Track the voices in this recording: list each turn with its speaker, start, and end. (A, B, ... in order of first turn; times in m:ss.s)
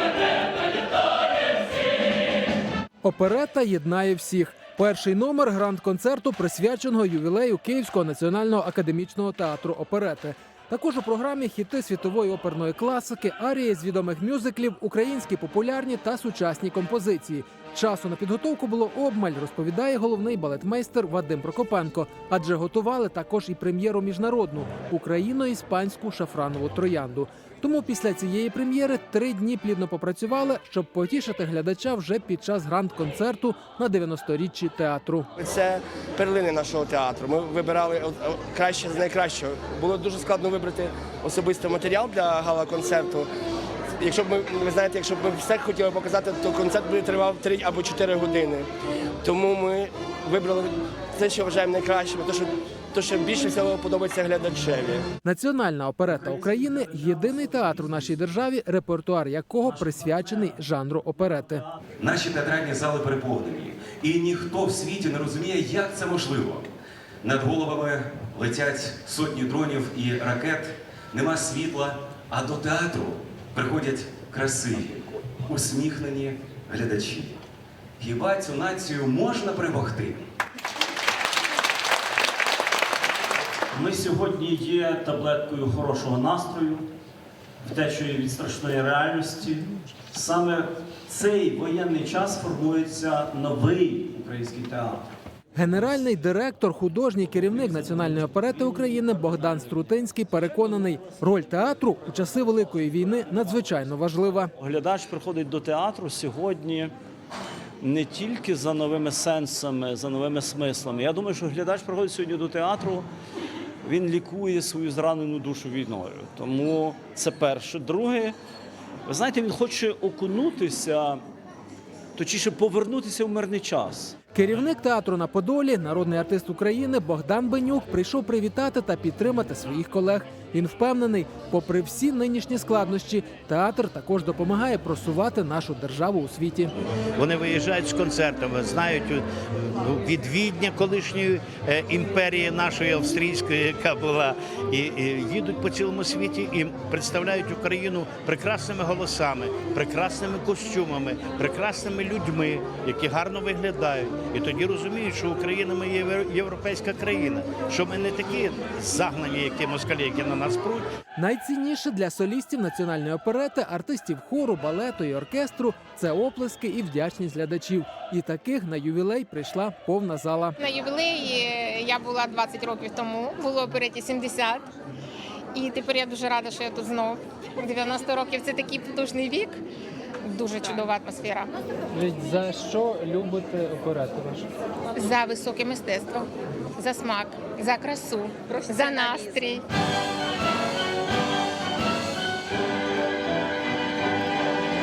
0:03.0-0:35.3 A
0:35.4-0:43.3 B
0:44.0-0:48.7 B
0:49.2-0:55.0 B
0:55.2-1:01.6 A
0:56.0-0:58.4 C
0:59.6-1:00.6 C
1:01.2-1:01.8 C
1:02.0-1:06.7 D
1:07.2-1:17.4 D
1:18.0-1:20.2 D
1:23.7-1:26.9 C
1:27.6-1:35.0 C
1:35.5-1:44.5 A
1:44.6-1:46.9 C
1:47.8-1:53.1 C
1:53.8-1:58.4 C
1:59.1-2:01.2 C
2:02.2-2:04.2 C
2:04.3-2:16.7 A
2:17.2-2:40.8 E
2:41.2-2:50.6 A
2:50.6-2:54.7 F
2:55.5-2:59.6 F
3:00.2-3:01.6 F
3:01.9-3:04.5 A
3:04.9-3:09.6 F